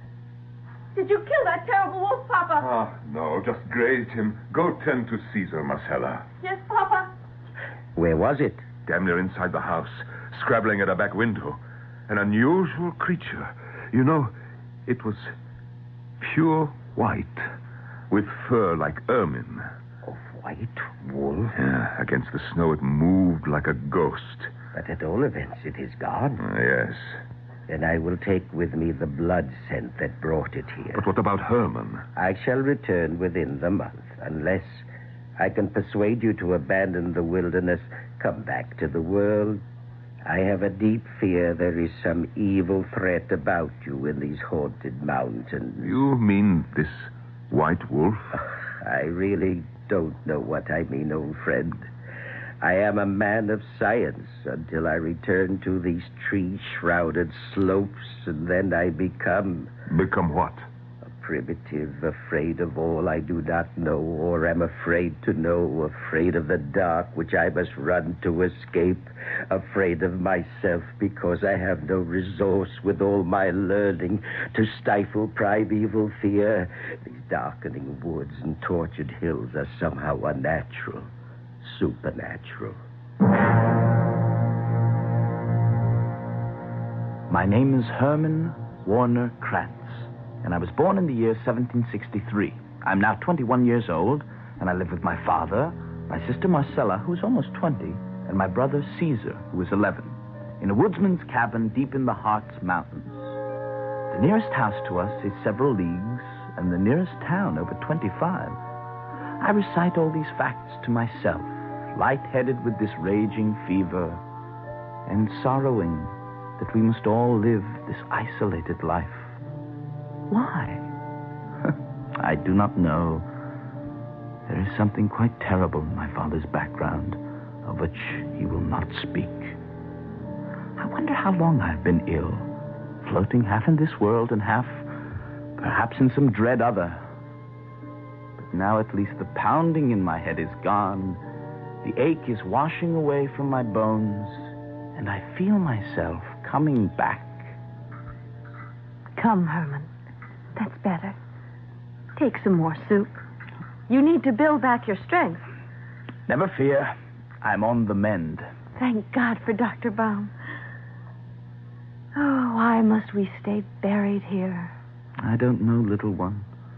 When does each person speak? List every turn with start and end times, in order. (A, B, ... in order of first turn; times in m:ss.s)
0:00.9-0:02.7 A
0:02.6-0:06.2 B
0:06.4-0:07.1 A
0:08.0-0:08.6 C
0:08.8-0:14.3 B
0:14.9-0:15.3 B
0:16.2-0:17.5 B
0:18.1-0:19.7 B
0:21.5-0:24.5 B
0:24.7-0:26.4 C
0:26.4-0:27.2 B
0:27.7-0:31.0 C
0:30.9-0:32.0 B
0:32.2-0:34.8 C
0:35.4-0:39.6 C
0:40.2-0:45.9 C
0:45.8-0:48.4 B
0:48.8-0:51.9 C
0:52.6-0:59.7 C
0:59.9-1:00.6 B
1:01.1-1:21.1 C
1:21.6-1:22.8 C
1:27.3-1:43.4 D
1:44.1-1:48.6 D
1:49.4-1:54.2 D
1:55.0-1:59.4 D
2:00.3-2:00.9 D
2:01.7-2:03.3 D
2:04.5-2:09.6 D
2:10.8-2:12.5 D
2:13.0-2:14.9 D
2:15.6-2:17.0 D
2:18.4-2:21.2 D
2:21.8-2:27.6 D
2:29.1-2:29.9 A
2:30.5-2:31.2 A
2:32.1-2:33.2 A
2:33.9-2:35.5 A
2:36.3-2:38.5 D
2:38.8-2:40.3 A
2:42.1-2:44.7 A
2:45.2-2:46.5 D